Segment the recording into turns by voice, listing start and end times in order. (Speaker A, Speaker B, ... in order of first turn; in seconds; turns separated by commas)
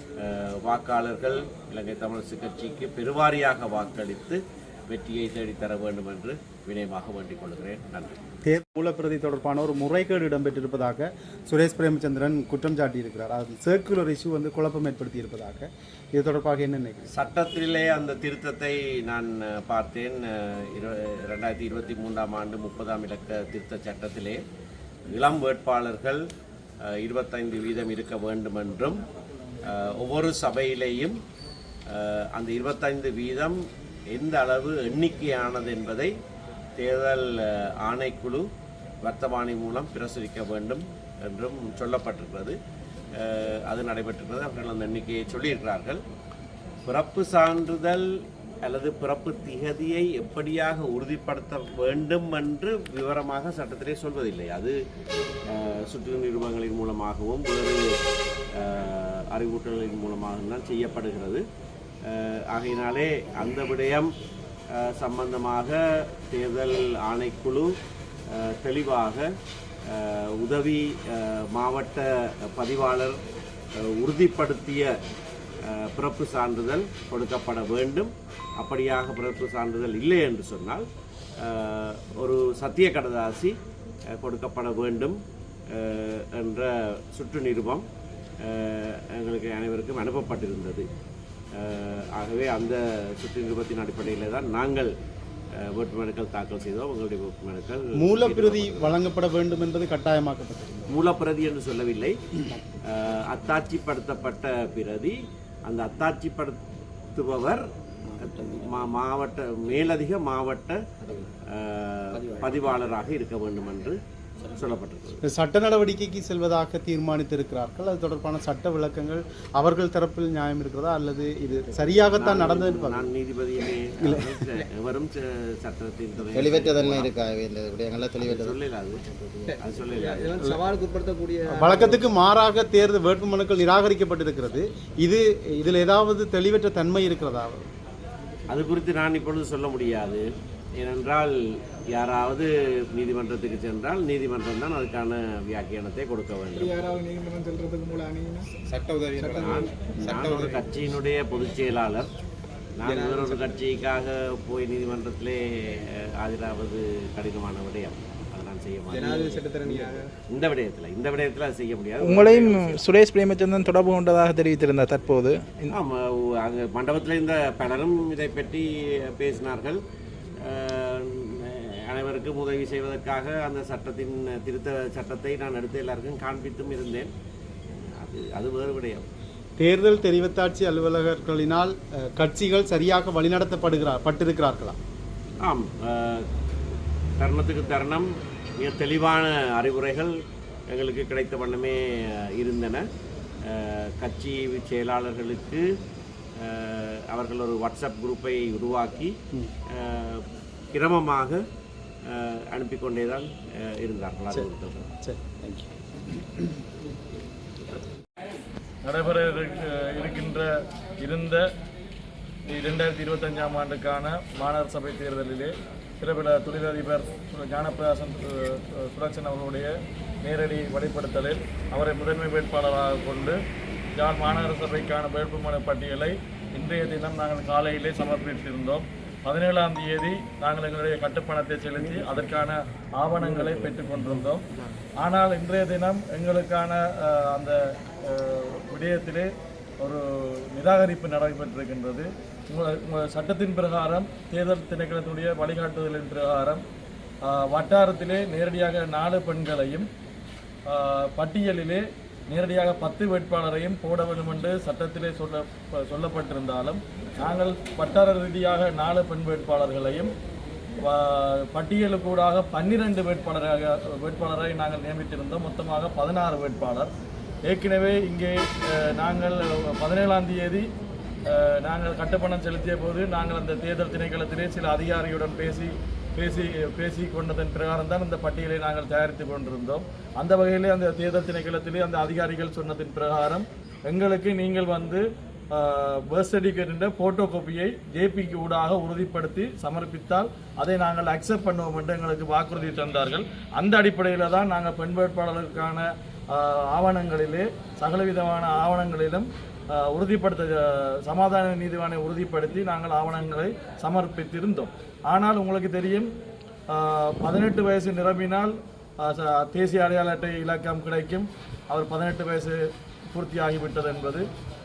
Speaker A: 0.2-8.2, Speaker B: 8.4-17.1, Speaker A: 17.1-24.4, Speaker A: 25.1-26.2, Speaker A: 26.8-29.0, Speaker A: 29.6-31.2, Speaker A: 31.9-33.6, Speaker A: 34.1-36.1, Speaker A: 36.8-38.5, Speaker A: 39.0-42.6, Speaker A: 43.1-46.0, Speaker A: 46.9-48.1, Speaker A: 48.6-54.8, Speaker A: 55.5-57.8, Speaker A: 58.5-61.4, Speaker A: 62.0-64.1, Speaker A: 64.7-65.8, Speaker A: 66.3-67.7, Speaker A: 68.3-69.3, Speaker A: 69.9-73.2, Speaker A: 73.8-74.9, Speaker A: 75.6-80.8, Speaker A: 81.4-83.5, Speaker A: 84.1-85.2, Speaker A: 85.7-87.8, Speaker A: 88.4-90.9, Speaker A: 91.5-94.9, Speaker A: 95.6-99.0, Speaker B: 97.9-100.9, Speaker A: 100.9-102.2, Speaker A: 102.8-106.6, Speaker A: 107.1-107.6, Speaker A: 108.2-110.8, Speaker A: 111.5-115.2, Speaker B: 115.2-123.1, Speaker A: 122.1-127.1, Speaker B: 124.0-124.4, Speaker C: 126.3-128.6, Speaker A: 128.2-129.0, Speaker D: 129.5-132.0, Speaker A: 129.6-130.6, Speaker B: 131.5-137.7, Speaker A: 138.5-140.2, Speaker A: 140.8-141.3, Speaker A: 141.9-146.8, Speaker D: 146.5-148.4, Speaker B: 148.8-150.5, Speaker D: 149.2-149.7, Speaker A: 149.4-152.1, Speaker A: 152.8-162.8, Speaker D: 152.8-153.6, Speaker D: 158.9-160.0, Speaker E: 162.0-165.7, Speaker A: 165.7-169.8, Speaker A: 170.4-177.1, Speaker A: 178.0-179.0, Speaker B: 179.6-184.8, Speaker A: 185.4-186.3, Speaker A: 187.2-190.1, Speaker A: 190.7-192.8, Speaker A: 193.4-195.6, Speaker A: 196.4-199.1, Speaker A: 199.7-201.4, Speaker A: 202.0-204.8, Speaker B: 205.0-205.7, Speaker F: 208.8-210.5, Speaker F: 211.0-211.5, Speaker F: 212.5-219.7, Speaker F: 220.2-223.4, Speaker F: 224.0-234.4, Speaker F: 235.0-239.3, Speaker F: 239.8-246.6, Speaker F: 247.2-249.9, Speaker F: 250.7-260.1, Speaker F: 260.8-266.9, Speaker F: 267.5-270.6, Speaker F: 271.3-306.1, Speaker F: 306.7-312.6, Speaker F: 313.1-314.2